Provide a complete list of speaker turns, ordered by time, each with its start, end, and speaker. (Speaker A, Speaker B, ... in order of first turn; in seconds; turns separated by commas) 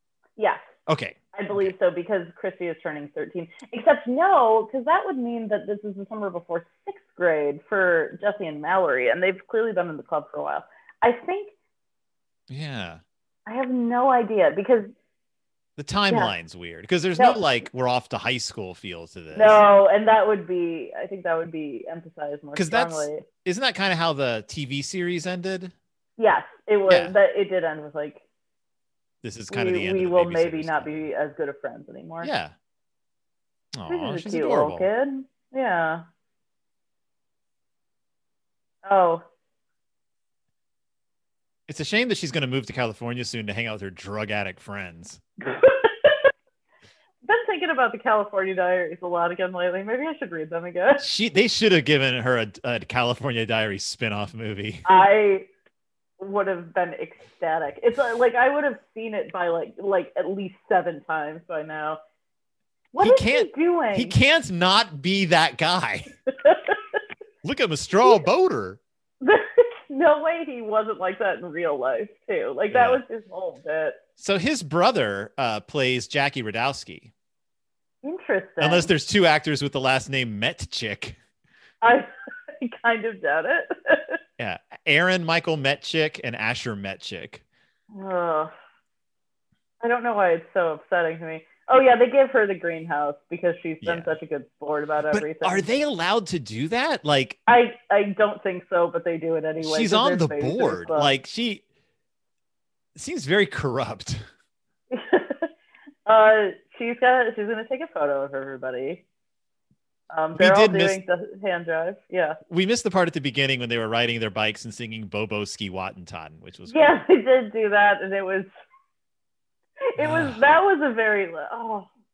Speaker A: 0.4-0.7, Speaker B: 0.9-1.7, Speaker A: 1.3-11.5, Speaker B: 12.5-13.0, Speaker A: 13.5-14.9, Speaker B: 15.8-19.6, Speaker A: 17.2-17.4, Speaker A: 19.3-23.2, Speaker B: 22.6-25.7, Speaker A: 26.2-28.2, Speaker B: 26.9-27.1, Speaker B: 29.2-31.1, Speaker A: 29.5-32.3, Speaker B: 32.2-32.5, Speaker B: 33.8-34.9, Speaker A: 33.9-36.0, Speaker A: 38.9-39.2, Speaker B: 41.7-45.2, Speaker A: 45.4-46.2, Speaker A: 47.2-51.0, Speaker B: 51.0-54.9, Speaker A: 54.9-55.5, Speaker A: 56.2-62.0, Speaker A: 62.9-64.2, Speaker B: 63.0-66.1, Speaker A: 66.4-67.0, Speaker B: 67.4-68.8, Speaker A: 69.2-74.0, Speaker B: 72.7-73.0, Speaker B: 74.2-77.1, Speaker A: 78.0-78.9, Speaker B: 78.6-81.2, Speaker A: 81.8-84.2, Speaker B: 84.4-87.4, Speaker A: 87.9-88.5, Speaker A: 89.8-95.7, Speaker B: 93.8-94.1, Speaker B: 95.1-97.4, Speaker A: 97.5-101.1, Speaker B: 99.6-101.6, Speaker B: 103.0-104.2, Speaker A: 104.9-105.5, Speaker A: 106.1-109.0, Speaker A: 110.1-112.4, Speaker B: 110.3-111.0, Speaker B: 112.5-116.9, Speaker A: 116.7-118.5, Speaker A: 119.9-121.9, Speaker B: 120.0-120.4